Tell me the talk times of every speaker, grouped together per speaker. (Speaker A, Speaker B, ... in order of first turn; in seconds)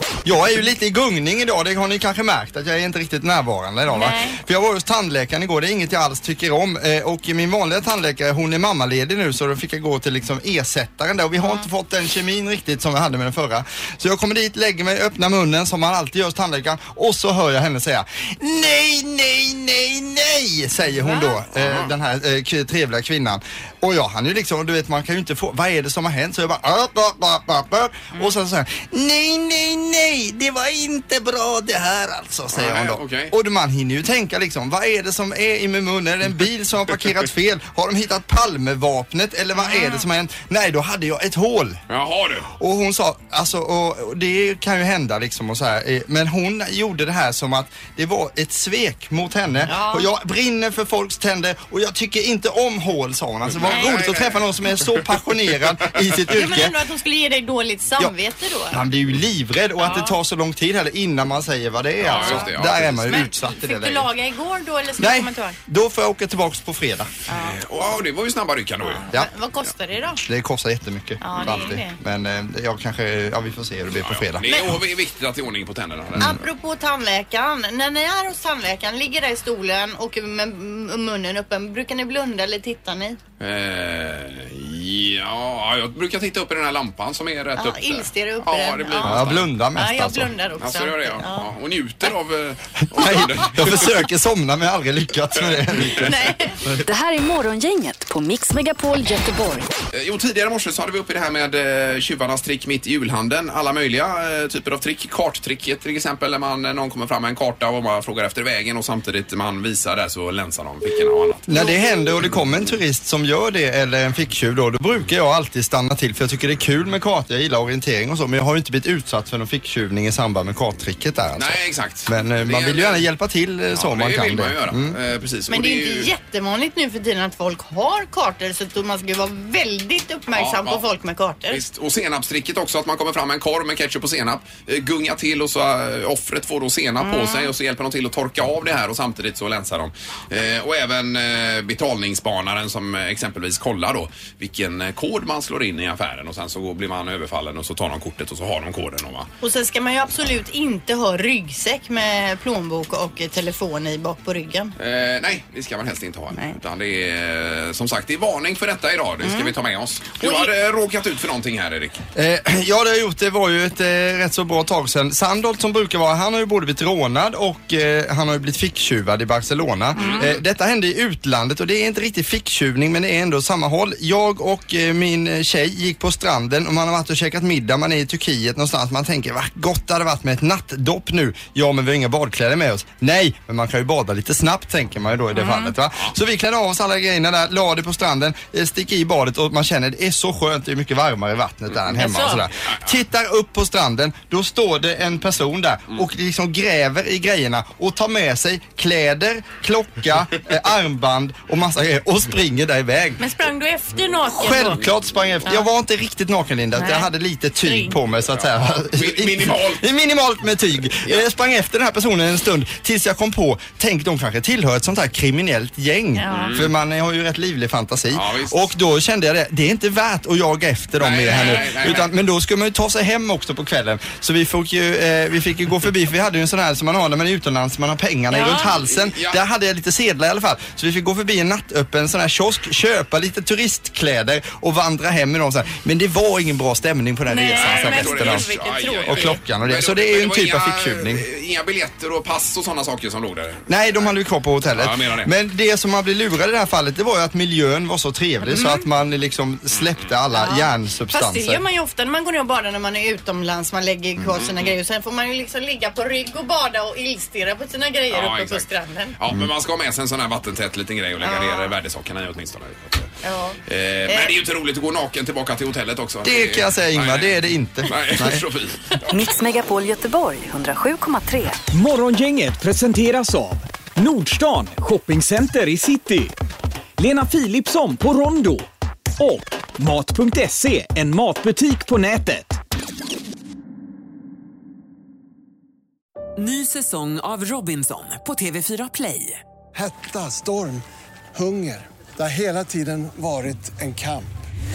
Speaker A: 0.2-41.8, 42.6-56.8, 58.7-64.1, 65.0-67.1, 70.2-74.5, 89.0-90.3, 92.9-96.3, 111.5-125.0, 162.1-203.2, 204.3-238.4, 239.1-241.2, 243.7-251.6, 266.2-268.4
Speaker B: 3.9-4.4, 11.4-11.7, 21.0-21.4, 39.6-40.0, 49.7-50.1, 53.6-53.9, 56.3-58.8, 59.8-60.1, 62.1-65.6, 67.3-67.6, 68.8-70.2, 71.2-72.0, 74.5-74.8, 76.2-83.2, 87.5-89.2, 89.8-91.5, 95.9-96.6, 111.5-111.8, 125.5-131.6, 137.0-137.5, 149.4-154.7, 159.2-159.5, 160.2-160.5, 169.9-170.2, 185.3-185.8, 191.9-192.4, 203.2-204.8, 206.8-207.1, 207.6-208.0, 216.2-216.6, 221.3-222.0, 228.3-228.7, 237.3-239.4, 248.4-248.8, 250.3-259.1, 261.2-261.8, 263.2-264.4
Speaker C: 21.5-21.9, 32.5-33.3, 41.9-42.5, 53.5-56.0, 62.0-63.2, 67.3-69.0, 74.0-76.4, 83.4-89.5, 90.6-94.1, 95.5-96.0, 99.9-111.5, 121.3-123.0, 123.7-126.1, 130.3-130.8, 131.5-149.3, 154.8-162.0, 170.0-170.4, 208.3-209.8, 216.3-216.7, 218.1-218.6, 221.0-222.1, 228.4-229.4, 237.5-243.7, 244.7-245.3, 254.2-254.7, 258.1-258.7, 259.2-263.1, 263.7-267.3, 267.8-269.0
Speaker D: 96.8-99.7, 269.1-271.6
Speaker E: 271.7-276.3, 277.0-278.6, 279.2-282.6
Speaker F: 286.4-289.4
Speaker G: 289.7-294.3